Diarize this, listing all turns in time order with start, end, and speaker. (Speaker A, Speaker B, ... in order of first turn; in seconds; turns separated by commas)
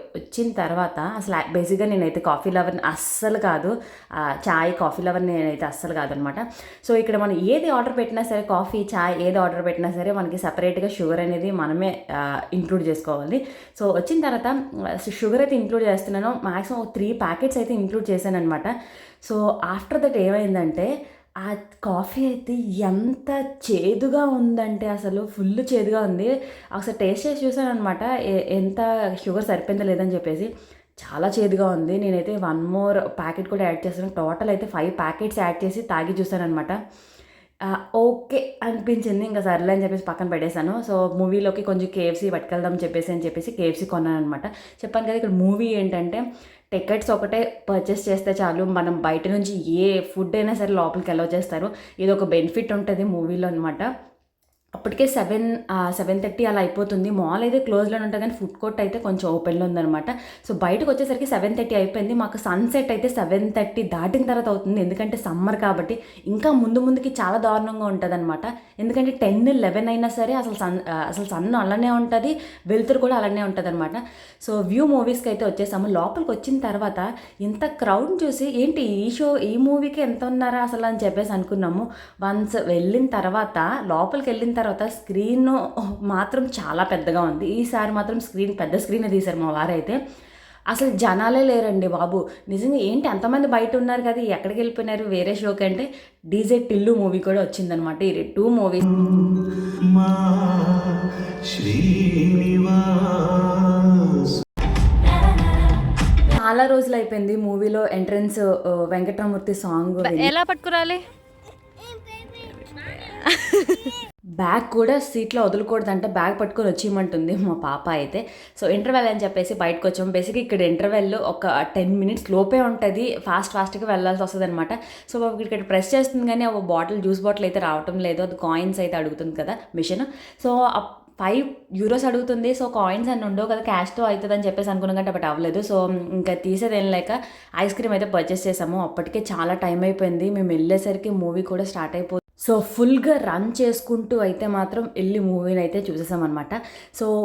Speaker A: 0.3-18.7, Speaker A: 19.2-20.9, Speaker A: 21.4-30.5, Speaker A: 31.0-36.8, Speaker A: 37.6-53.9, Speaker A: 54.8-90.0, Speaker A: 90.7-99.0, Speaker B: 99.1-104.4, Speaker A: 106.3-110.3, Speaker C: 110.0-111.0, Speaker A: 112.7-113.2, Speaker C: 112.7-113.9, Speaker A: 114.4-147.1